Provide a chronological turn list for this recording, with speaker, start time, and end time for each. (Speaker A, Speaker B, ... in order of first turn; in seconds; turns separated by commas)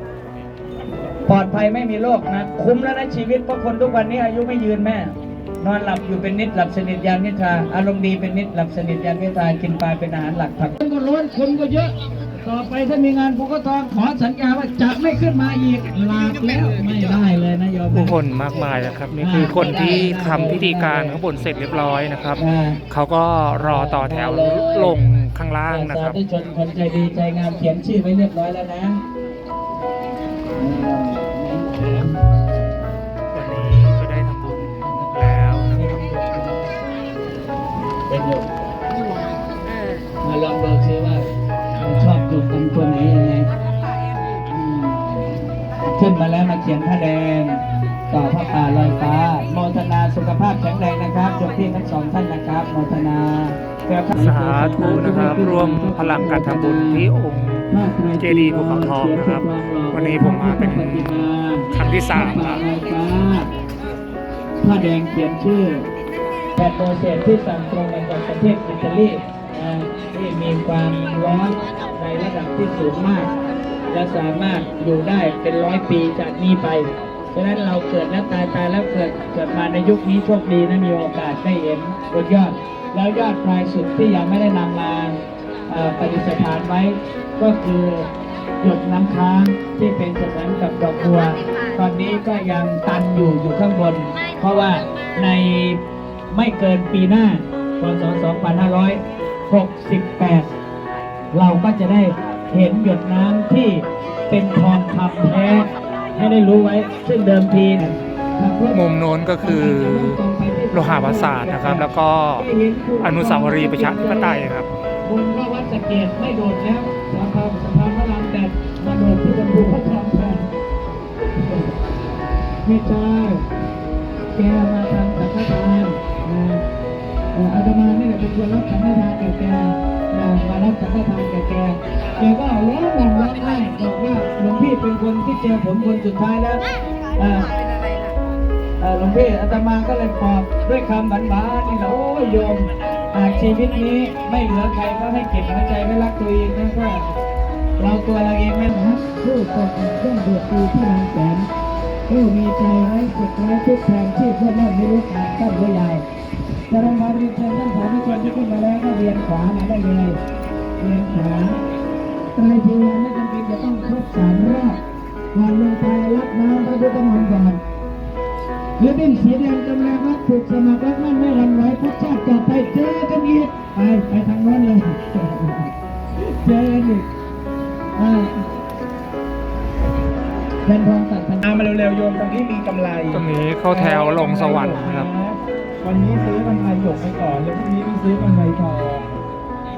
Speaker A: 1.3-18.1, Speaker B: 17.9-26.2, Speaker A: 19.2-21.2, Speaker A: 22.4-22.8, Speaker A: 23.6-25.0, Speaker A: 25.7-29.0, Speaker A: 30.5-32.2, Speaker B: 33.3-35.8, Speaker A: 35.8-36.7, Speaker A: 38.1-38.5, Speaker A: 40.2-43.5, Speaker A: 44.5-45.4, Speaker A: 45.9-57.0, Speaker B: 54.1-57.7, Speaker A: 57.7-63.5, Speaker B: 58.2-62.6, Speaker A: 64.6-65.9, Speaker A: 66.6-73.3, Speaker A: 73.9-88.1, Speaker A: 88.6-100.5, Speaker A: 101.3-108.8, Speaker B: 108.7-110.2, Speaker A: 109.4-114.4, Speaker B: 110.7-112.5, Speaker B: 113.0-114.7, Speaker A: 115.0-120.5, Speaker A: 121.4-121.7, Speaker A: 122.6-123.4, Speaker A: 124.3-126.6, Speaker A: 127.3-136.6, Speaker A: 137.2-137.5, Speaker A: 138.8-147.1, Speaker A: 147.8-151.5, Speaker A: 152.1-156.1, Speaker A: 156.7-160.2, Speaker A: 160.8-161.6, Speaker A: 162.3-164.8, Speaker A: 165.3-167.6, Speaker A: 168.8-175.7, Speaker A: 176.3-177.1, Speaker A: 178.0-178.3, Speaker A: 180.7-189.1, Speaker B: 183.1-185.1